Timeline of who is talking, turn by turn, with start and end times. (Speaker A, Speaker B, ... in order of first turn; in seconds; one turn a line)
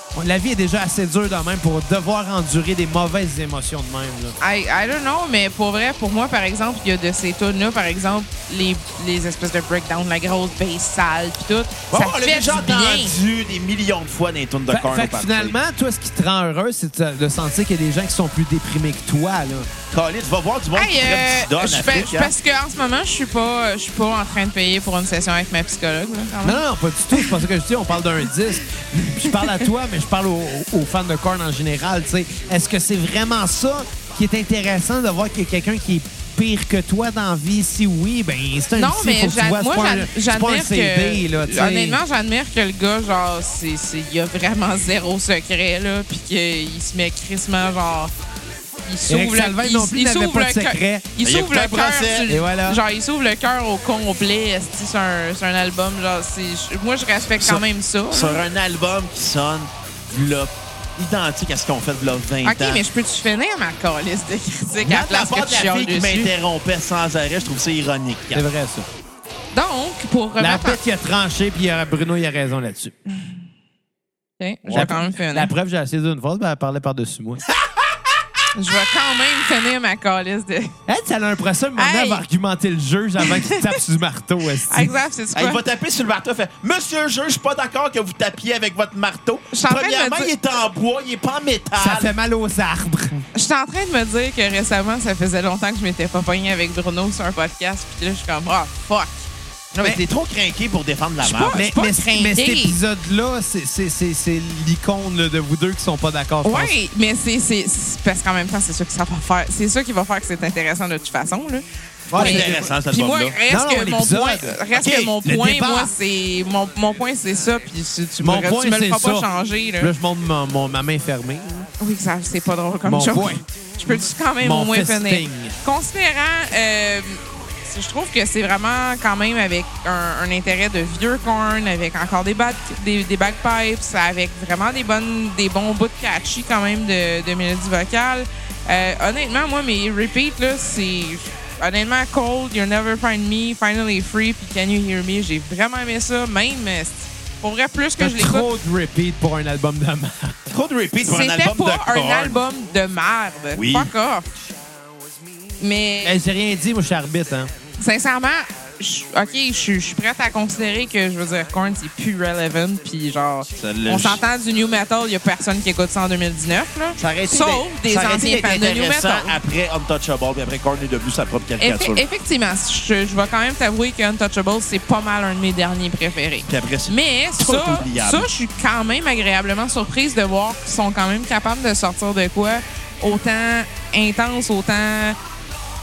Speaker A: 0.1-4.4
Speaker B: 4.4-13.2
Speaker C: 11.9-15.6
Speaker A: 14.7-19.7
Speaker C: 19.9-22.3
Speaker B: 20.8-27.3
Speaker A: 26.4-42.0
Speaker B: 38.8-48.1
Speaker B: 48.8-58.4
Speaker A: 49.1-51.1
Speaker C: 51.2-52.3
Speaker A: 52.3-52.8
Speaker C: 57.3-62.8
Speaker B: 62.5-66.3
Speaker C: 64.8-68.5
Speaker A: 68.3-68.9
Speaker B: 69.5-70.8
Speaker A: 70.4-73.0
Speaker B: 74.4-75.5
Speaker C: 74.7-75.0
Speaker A: 74.7-77.5
Speaker B: 78.5-80.7
Speaker A: 80.9-84.9
Speaker B: 81.8-82.2
Speaker B: 83.2-83.8
Speaker B: 84.7-85.6
Speaker C: 85.3-92.1
Speaker B: 89.5-90.3
Speaker A: 91.8-93.2
Speaker B: 93.3-99.3
Speaker C: 99.7-101.7
Speaker B: 101.2-102.8
Speaker A: 101.5-106.8
Speaker B: 106.4-119.9
Speaker A: 112.1-112.7
Speaker C: 112.1-113.4
Speaker A: 113.5-114.7
Speaker C: 114.7-115.2
Speaker A: 115.2-115.9
Speaker A: 118.2-119.3
Speaker A: 119.8-121.7
Speaker B: 121.8-148.5
Speaker A: 122.8-125.5
Speaker A: 148.0-150.4
Speaker C: 150.5-152.4
Speaker B: 151.1-154.3
Speaker C: 153.6-153.9
Speaker B: 155.6-156.2
Speaker A: 156.0-157.5
Speaker B: 157.8-169.3
Speaker C: 163.6-164.2
Speaker C: 167.0-172.0
Speaker B: 171.6-185.2
Speaker C: 176.5-178.3